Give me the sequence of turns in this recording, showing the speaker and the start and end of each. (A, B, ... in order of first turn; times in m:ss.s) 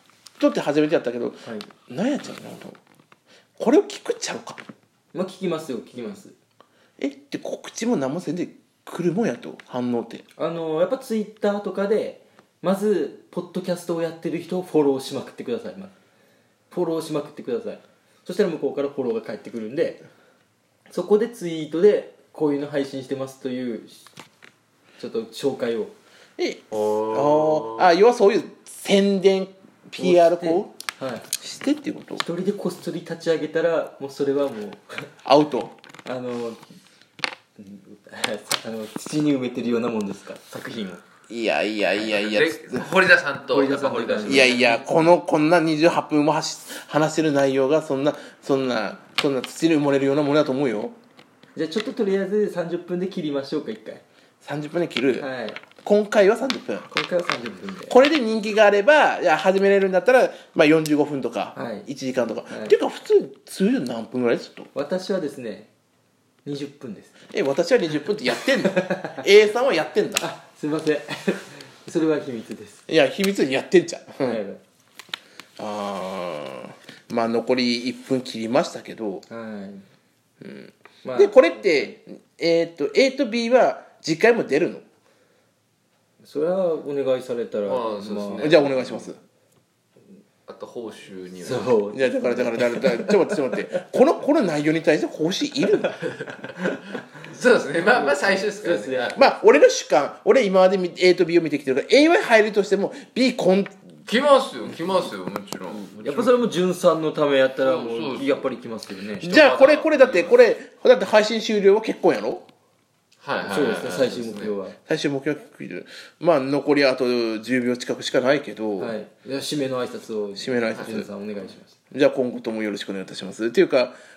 0:00.4-0:02.8 A
0:03.6-0:04.6 A
0:05.1-0:06.4 B
0:07.0-0:10.2 A
0:10.4-0:15.9 B
0:16.7-0:20.0 B
0:20.9-0:24.1 B
0:25.0-0:25.9 B
0:26.4-0:30.7 A
0:26.7-0:27.9 C
0:30.0-0:31.3 B
0:31.4-0:32.2 A
0:32.2-0:35.1 B
0:35.2-0:35.8 A
0:36.0-0:36.6 B
0:37.6-0:41.0 B
0:41.3-0:42.8 A
0:42.0-0:44.5 C
0:43.5-0:45.1 B
0:44.2-0:50.9 A
0:51.5-0:54.0 B
0:54.4-0:55.3 A
0:55.2-0:55.6 B
0:55.8-0:56.9 A
0:56.9-0:58.0 B
0:57.9-1:04.7 A
1:01.6-1:01.9 B
1:02.5-1:02.8 B
1:04.7-1:05.7 B
1:06.4-1:07.2 B
1:07.3-1:10.3 A
1:08.6-1:09.2 B
1:10.2-1:12.8 B
1:12.9-1:14.4 A
1:14.2-1:14.6 B
1:15.6-1:19.2 A
1:19.3-1:19.8 B
1:20.4-1:24.8 A
1:21.0-1:21.9 B
1:26.2-1:28.6 B
1:27.6-1:28.9 C
1:28.4-1:29.2 A
1:30.4-1:31.8 C
1:31.4-1:33.6 B
1:31.9-1:36.0 A
1:36.0-1:36.5 C
1:37.1-1:39.2 C
1:37.9-1:39.2 B
1:39.1-1:43.8 A
1:44.0-1:46.4 C
1:46.0-1:49.4 B
1:47.6-1:48.4 C
1:49.2-1:50.4 C
1:49.2-1:52.4 A
1:53.2-1:54.5 C
1:53.5-1:54.8 B
1:54.9-1:59.0 A
1:58.8-2:01.8 B
2:00.4-2:01.1 A
2:00.7-2:01.0 C
2:01.9-2:04.0 A